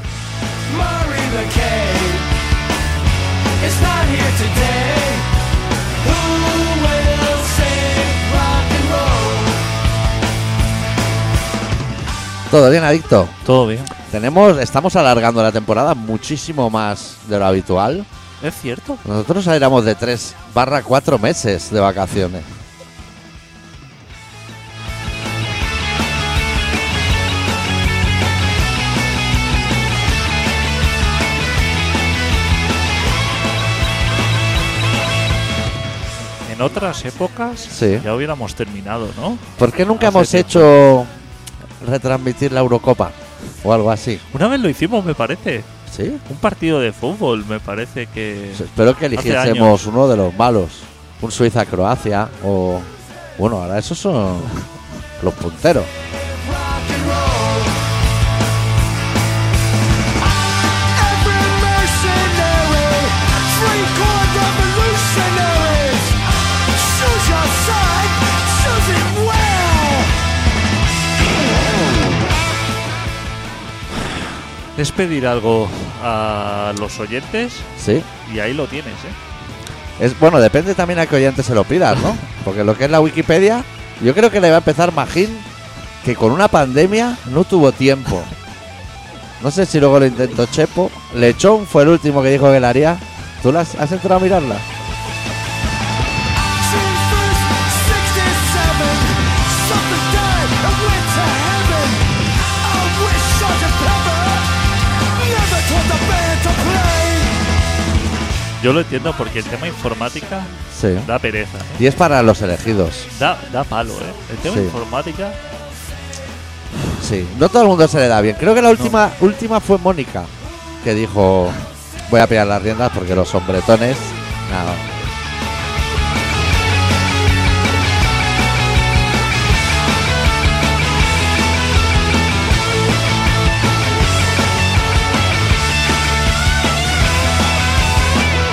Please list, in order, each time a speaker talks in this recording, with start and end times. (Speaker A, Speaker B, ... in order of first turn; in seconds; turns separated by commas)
Speaker A: 0.7-2.3, Speaker A: 3.6-5.3, Speaker A: 6.0-9.6, Speaker B: 12.5-13.4, Speaker C: 13.4-13.9, Speaker B: 14.0-18.1, Speaker C: 18.4-19.0, Speaker B: 19.1-22.5, Speaker C: 36.5-40.7, Speaker B: 37.7-38.1, Speaker B: 39.6-41.1, Speaker B: 41.8-44.2, Speaker C: 44.3-45.7, Speaker B: 45.9-46.2, Speaker C: 46.3-49.8, Speaker B: 48.5-54.5, Speaker B: 55.2-55.9, Speaker A: 56.2-57.9, Speaker A: 60.2-70.2, Speaker C: 74.8-79.2, Speaker B: 77.8-78.1, Speaker B: 80.0-85.5, Speaker B: 86.0-88.3, Speaker B: 89.4-94.7, Speaker A: 96.4-107.4, Speaker C: 108.6-110.5, Speaker B: 110.7-111.1, Speaker C: 111.0-111.8, Speaker B: 111.8-113.1, Speaker C: 113.1-115.4, Speaker B: 114.5-114.8, Speaker B: 117.0-120.3, Speaker B: 120.8-124.9